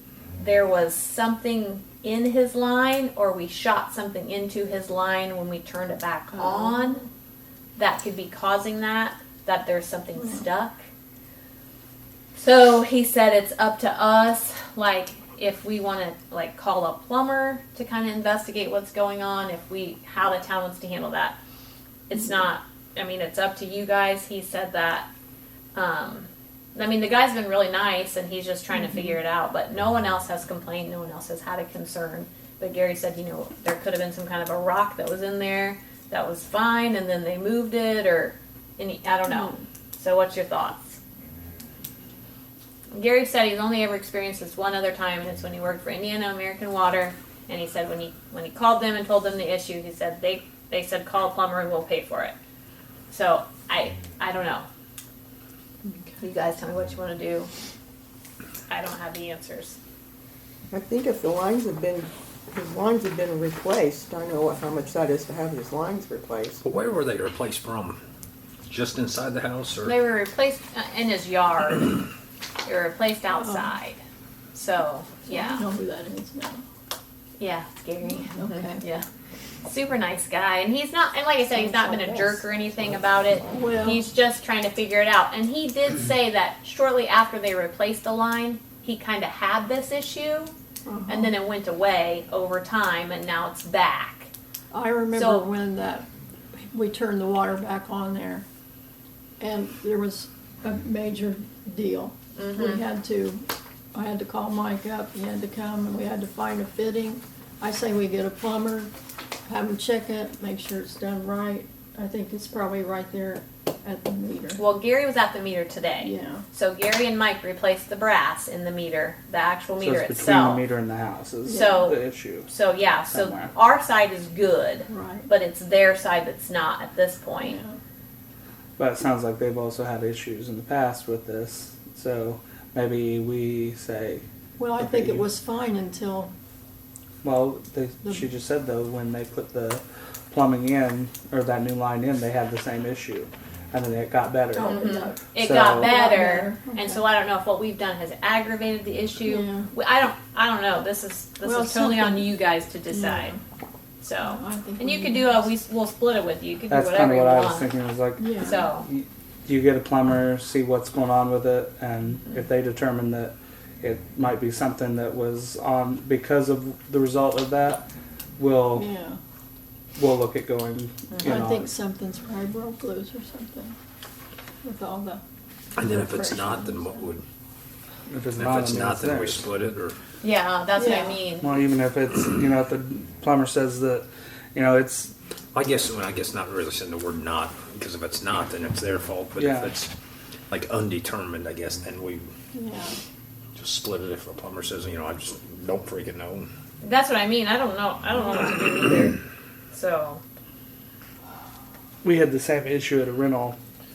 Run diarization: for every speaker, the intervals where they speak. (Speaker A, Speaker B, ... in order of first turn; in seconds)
Speaker A: 0.4-7.0, 7.8-10.8, 12.4-21.4, 22.1-25.1, 25.8-41.0, 42.9-52.3, 53.1-54.7, 56.2-57.5, 58.7-59.8, 69.8-72.0, 72.7-74.0, 74.5-75.7, 77.4-79.1, 79.6-90.5, 91.1-94.3, 95.1-95.5, 102.3-102.8, 114.6-120.7, 121.5-127.6, 144.7-153.4, 154.0-157.7, 158.4-158.9, 180.2-181.7, 196.8-199.2, 199.7-200.2
Speaker B: 6.3-7.1, 10.2-10.4, 39.3-39.6, 73.3-73.7, 75.2-76.6, 78.0-78.8, 83.5-84.0, 90.9-91.3, 94.7-96.1, 96.7-98.5, 99.4-108.9, 109.5-114.6, 116.0-116.5, 121.5-121.9, 124.9-125.3, 127.4-127.8, 134.6-136.3, 144.5-147.0, 149.3-149.7, 151.4-152.3, 152.9-153.4, 154.2-155.5, 158.2-158.7, 168.8-169.2, 171.2-173.8, 174.6-175.2, 175.8-177.1, 180.8-181.2, 192.5-193.0
Speaker C: 60.7-66.6, 81.5-83.7
Speaker D: 66.6-68.0, 68.7-70.0, 175.8-177.2, 178.3-180.0, 185.5-189.9, 190.5-192.3, 193.6-196.5
Speaker E: 119.8-122.5, 123.1-123.5, 128.8-134.2, 134.8-135.3, 137.2-145.9, 156.7-167.9, 168.4-168.9, 170.0-171.7, 178.1-179.4, 181.4-185.1, 189.4-189.8, 202.0-203.6